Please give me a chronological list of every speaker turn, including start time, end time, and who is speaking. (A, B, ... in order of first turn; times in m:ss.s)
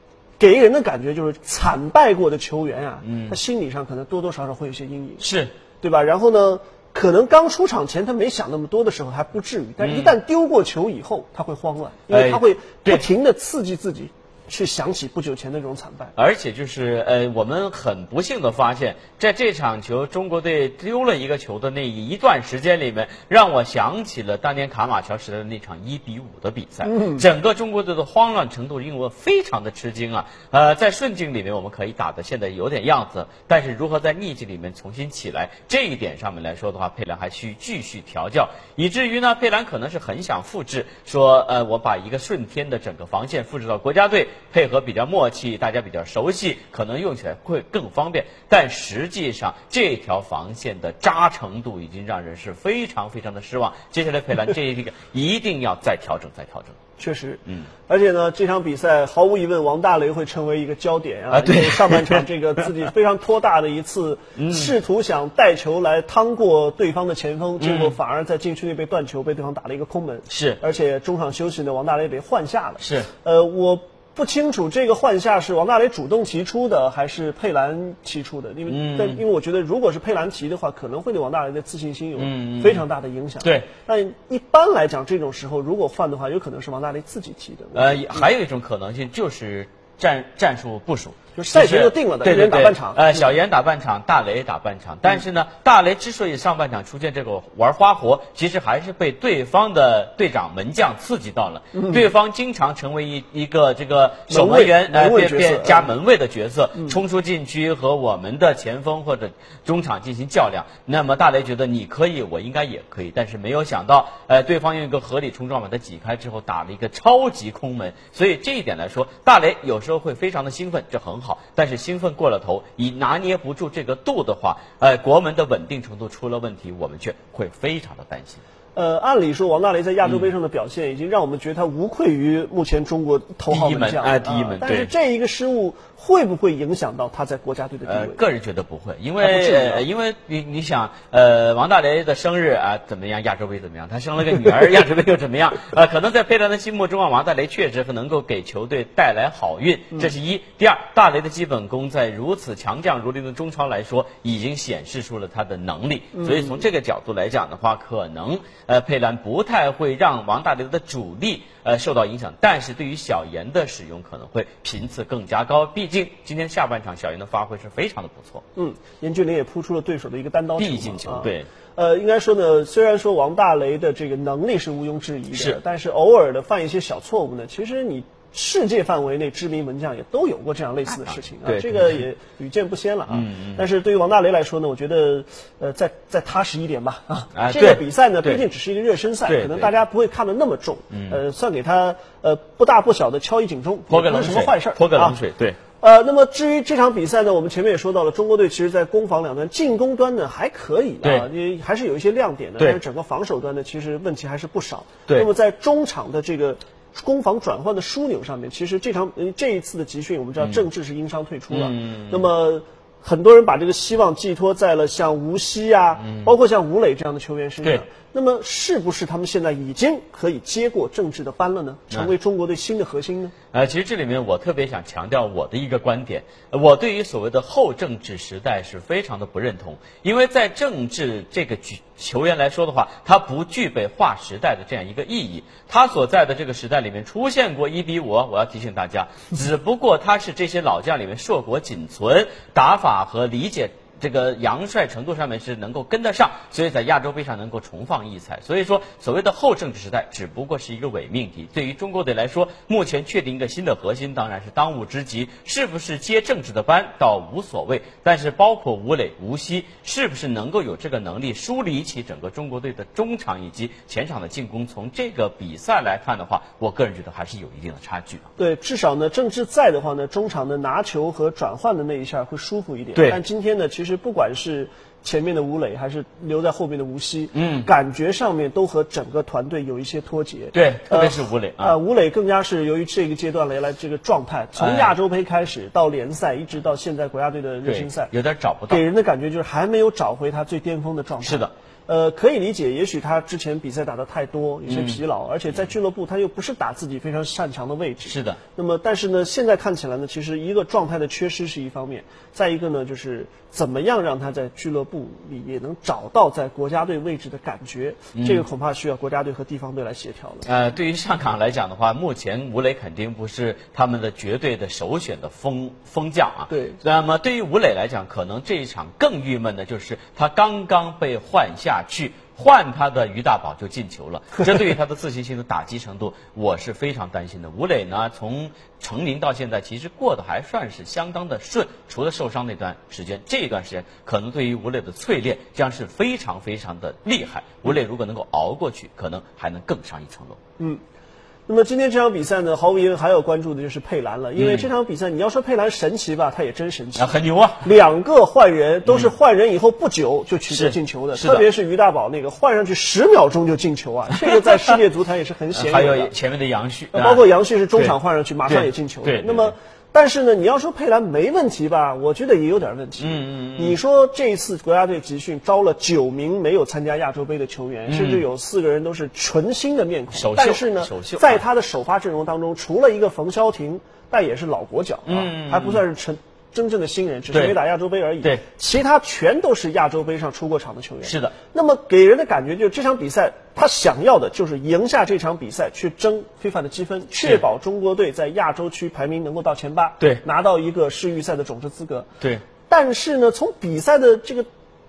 0:00.4-0:05.2 A
0:03.0-0:03.4 B
0:05.2-0:05.5 B
0:05.8-0:16.1 A
0:09.8-0:10.2 B
0:12.1-0:13.1 B
0:16.2-0:56.8 B
0:26.8-0:27.2 A
0:57.0-1:28.3 A
0:57.4-0:57.7 B
1:01.3-1:02.2 B
1:04.4-1:04.7 B
1:07.6-1:08.0 B
1:10.3-1:10.6 B
1:12.8-1:13.1 B
1:18.7-1:19.2 B
1:22.2-1:22.8 B
1:23.4-1:23.7 B
1:27.8-2:08.4 B
1:31.4-1:33.3 A
1:41.7-1:42.1 A
1:44.3-1:46.0 A
2:08.8-2:18.2 A
2:10.0-2:10.3 B
2:13.5-2:14.9 B
2:17.9-2:48.4 B
2:19.2-2:19.8 A
2:36.2-2:36.6 A
2:48.6-3:15.2 A
2:50.6-2:51.5 B
2:55.3-2:55.6 B
3:01.0-3:02.0 B
3:03.1-3:03.7 B
3:07.4-3:08.4 B
3:09.3-3:09.7 B
3:10.9-3:11.2 B
3:13.9-3:15.6 B
3:15.8-3:43.3 A
3:31.5-3:32.3 B
3:36.0-3:36.3 B
3:43.5-4:28.3 B
4:28.4-4:48.1 A
4:37.3-4:37.7 B
4:40.5-4:41.8 B
4:44.6-4:44.9 B
4:47.6-4:48.8 B
4:48.7-5:10.5 A
4:51.2-4:51.5 B
4:54.7-4:55.0 B
4:58.0-4:58.4 B
5:08.2-5:08.4 B
5:10.4-5:40.4 B
5:16.5-5:16.8 A
5:41.5-5:56.1 A
5:44.4-5:44.7 B
5:47.0-5:47.7 B
5:48.8-5:49.1 B
5:50.5-5:51.5 B
5:54.5-5:54.8 B
5:55.6-5:59.5 B
5:56.9-6:32.1 A
6:03.0-6:03.8 B
6:07.9-6:08.2 B
6:10.1-6:11.4 B
6:15.1-6:15.8 B
6:17.3-6:17.6 B
6:21.0-6:21.3 B
6:32.7-6:34.5 A